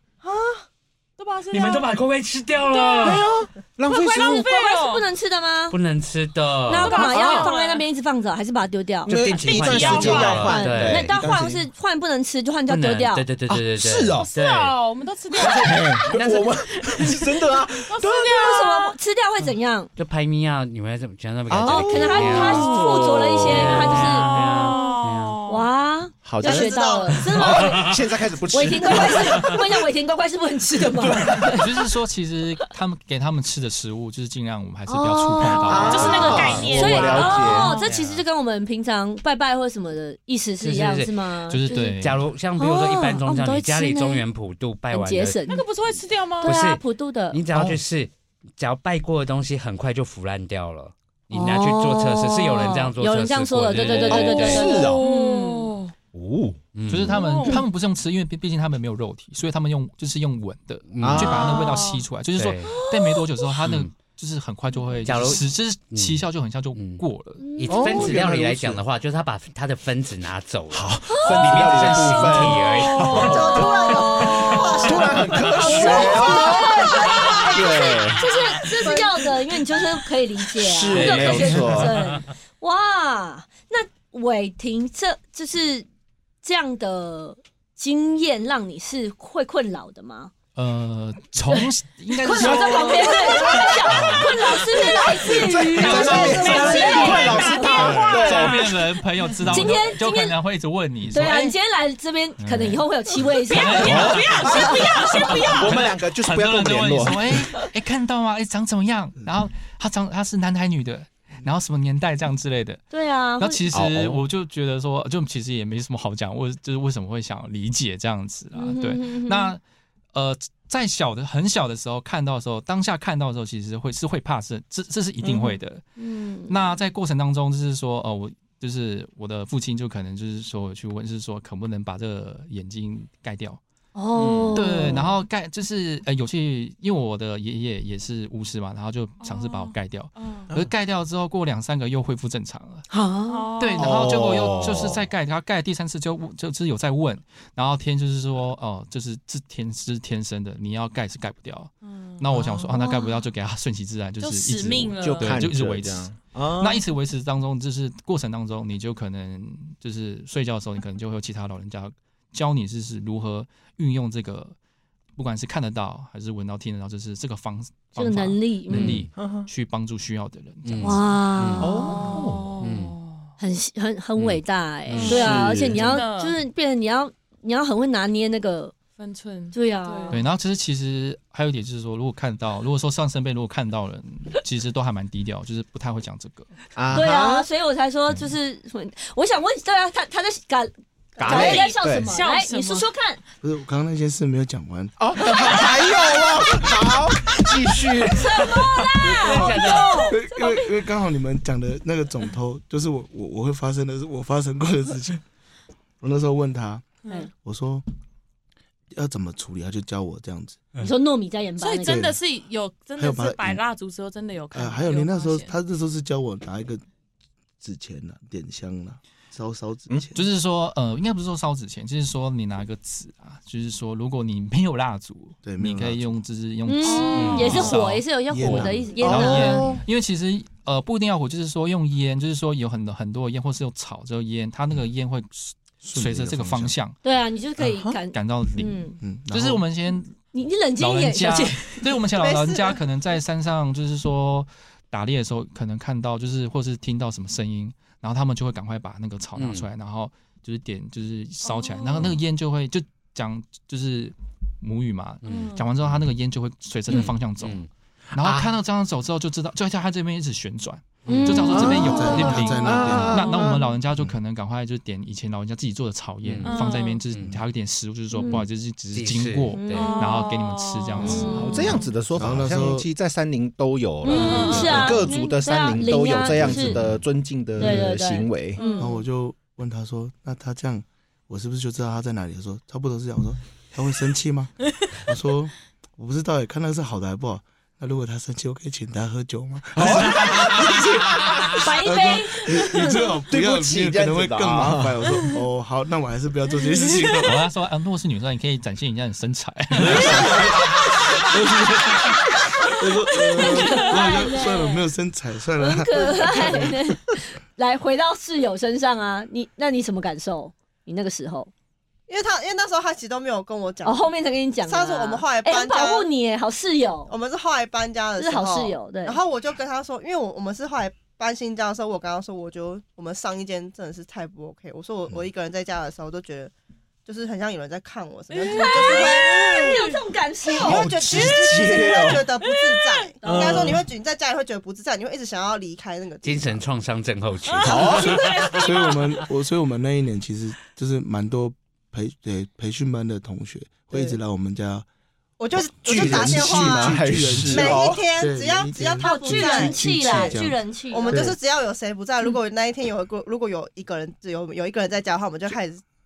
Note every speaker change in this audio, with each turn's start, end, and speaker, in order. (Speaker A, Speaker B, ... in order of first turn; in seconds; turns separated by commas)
Speaker A: 0.2-0.6, Speaker B: 1.2-2.0, Speaker C: 1.5-3.2, Speaker B: 2.6-3.3, Speaker D: 3.0-4.5, Speaker E: 3.9-5.8, Speaker B: 4.0-5.0, Speaker C: 5.7-7.1, Speaker E: 6.7-9.2, Speaker B: 6.8-7.8, Speaker D: 7.1-7.5, Speaker D: 9.1-11.7, Speaker C: 9.1-11.2, Speaker B: 9.4-10.6, Speaker E: 9.8-13.2, Speaker C: 12.7-14.8, Speaker D: 13.5-14.3, Speaker B: 14.2-16.1, Speaker D: 15.3-18.6, Speaker C: 16.1-16.6, Speaker B: 17.9-18.9, Speaker E: 18.3-19.9, Speaker C: 19.9-25.4, Speaker D: 21.5-24.0, Speaker E: 21.6-24.3, Speaker B: 23.7-25.7, Speaker E: 25.5-27.9, Speaker D: 26.2-29.6, Speaker A: 26.4-27.7, Speaker C: 27.6-27.9, Speaker E: 28.5-31.7, Speaker D: 31.0-31.6, Speaker F: 31.5-36.7, Speaker E: 34.9-42.0, Speaker D: 35.6-37.7, Speaker B: 35.8-37.9, Speaker C: 36.0-38.2, Speaker C: 40.6-41.1, Speaker F: 41.5-42.3, Speaker C: 41.7-45.4, Speaker E: 42.6-44.2, Speaker E: 44.9-45.6, Speaker B: 45.5-46.5, Speaker E: 46.4-47.4, Speaker C: 46.4-54.8, Speaker D: 47.5-47.8, Speaker E: 51.3-55.7, Speaker D: 54.1-55.0, Speaker B: 54.4-55.9, Speaker D: 56.1-56.6, Speaker C: 56.7-57.4, Speaker F: 56.9-67.6, Speaker B: 57.1-57.6, Speaker C: 60.9-61.5, Speaker D: 61.0-61.6, Speaker B: 61.2-62.0, Speaker C: 62.3-62.7, Speaker E: 62.8-63.2, Speaker C: 63.6-64.0, Speaker C: 65.0-67.0, Speaker E: 67.4-68.1, Speaker C: 67.5-73.7, Speaker D: 67.7-68.8, Speaker D: 70.7-79.1, Speaker E: 71.1-71.5, Speaker B: 72.6-76.7, Speaker E: 72.9-85.8, Speaker A: 73.1-77.6, Speaker D: 80.6-82.0, Speaker C: 80.9-81.9, Speaker E: 86.4-90.3, Speaker F: 90.5-94.6, Speaker E: 91.5-98.2, Speaker D: 92.4-92.7, Speaker D: 93.4-94.2, Speaker D: 94.8-98.9, Speaker F: 95.6-101.5, Speaker A: 95.9-96.7, Speaker B: 96.5-99.4, Speaker E: 99.5-100.3, Speaker E: 101.1-105.8, Speaker F: 102.4-112.8, Speaker B: 103.7-105.7, Speaker D: 103.8-107.4, Speaker E: 107.3-107.7, Speaker E: 112.9-113.6, Speaker F: 113.4-119.6, Speaker D: 113.7-114.2, Speaker E: 118.5-119.5, Speaker F: 120.1-125.8, Speaker E: 125.2-126.7, Speaker F: 126.5-133.6, Speaker E: 133.9-135.1, Speaker D: 134.2-134.8, Speaker F: 134.5-142.8, Speaker B: 139.2-140.5, Speaker E: 142.9-143.5, Speaker B: 143.3-144.9, Speaker F: 143.6-164.5, Speaker D: 143.8-145.1, Speaker B: 151.8-152.6, Speaker E: 152.8-153.1, Speaker B: 154.2-155.4, Speaker D: 155.0-156.8, Speaker F: 165.2-171.1, Speaker E: 167.9-169.0, Speaker C: 168.7-169.1, Speaker D: 169.1-169.5, Speaker C: 170.6-171.9, Speaker E: 170.8-172.3, Speaker D: 171.6-172.6, Speaker B: 171.6-173.3, Speaker C: 172.5-173.0, Speaker E: 173.4-178.7, Speaker C: 174.2-175.3, Speaker B: 175.0-176.3, Speaker D: 175.1-175.8, Speaker B: 179.0-180.2, Speaker E: 179.5-180.2, Speaker F: 180.1-186.7, Speaker D: 186.7-187.5, Speaker E: 186.9-193.2, Speaker D: 191.2-192.1, Speaker B: 191.2-192.9, Speaker G: 193.4-194.9, Speaker D: 195.0-198.7, Speaker E: 198.1-200.7, Speaker C: 199.1-200.1, Speaker G: 199.1-205.2, Speaker G: 206.0-207.8, Speaker G: 208.9-210.7, Speaker E: 210.8-212.1, Speaker B: 211.6-215.5, Speaker G: 211.8-212.2, Speaker G: 213.0-213.6, Speaker G: 214.5-216.8, Speaker G: 217.6-220.2, Speaker F: 220.1-237.0, Speaker G: 225.4-226.2, Speaker E: 226.6-229.7, Speaker B: 226.8-227.8, Speaker C: 227.1-227.7, Speaker G: 228.3-229.0, Speaker D: 229.0-229.8, Speaker G: 235.8-236.8, Speaker E: 237.0-239.0, Speaker D: 237.6-238.0, Speaker F: 238.1-240.2, Speaker G: 239.0-239.6, Speaker E: 240.3-241.9, Speaker F: 240.8-271.7, Speaker A: 242.2-242.8, Speaker C: 249.3-249.7, Speaker B: 251.4-252.1, Speaker C: 255.2-256.0, Speaker B: 255.2-255.6, Speaker C: 256.9-257.7, Speaker D: 258.1-258.5, Speaker C: 261.1-261.5, Speaker E: 261.1-262.1, Speaker G: 261.5-263.3, Speaker D: 261.5-263.6, Speaker B: 261.9-262.6, Speaker B: 263.3-263.6, Speaker C: 266.2-267.4, Speaker B: 266.4-267.0, Speaker E: 268.1-268.4, Speaker C: 268.3-270.0, Speaker E: 269.5-270.1, Speaker B: 269.7-271.9, Speaker C: 271.0-271.3, Speaker E: 271.0-271.8, Speaker D: 271.3-278.6, Speaker G: 272.1-272.9, Speaker E: 274.0-276.8, Speaker B: 274.1-275.0, Speaker G: 276.4-276.9, Speaker G: 277.6-277.9, Speaker E: 277.6-278.9, Speaker B: 278.6-278.9, Speaker G: 278.8-297.4, Speaker D: 289.8-291.5, Speaker E: 291.6-293.0, Speaker D: 293.3-295.0, Speaker F: 297.2-300.7, Speaker G: 299.8-306.8, Speaker E: 302.6-304.9, Speaker E: 305.6-311.5, Speaker A: 312.1-314.1, Speaker E: 313.8-317.1, Speaker A: 314.6-316.1, Speaker A: 317.1-326.5, Speaker E: 318.2-319.2, Speaker A: 327.1-329.8, Speaker B: 328.3-330.0, Speaker E: 328.4-330.9, Speaker A: 330.5-336.6, Speaker D: 330.6-332.3, Speaker B: 332.4-332.9, Speaker E: 333.2-333.6, Speaker D: 333.2-333.9, Speaker C: 336.2-338.3, Speaker B: 337.4-339.2, Speaker D: 337.6-338.4, Speaker G: 338.6-344.9, Speaker A: 343.9-344.2, Speaker A: 345.4-355.8, Speaker G: 345.5-351.4, Speaker D: 345.8-348.1, Speaker E: 349.0-351.2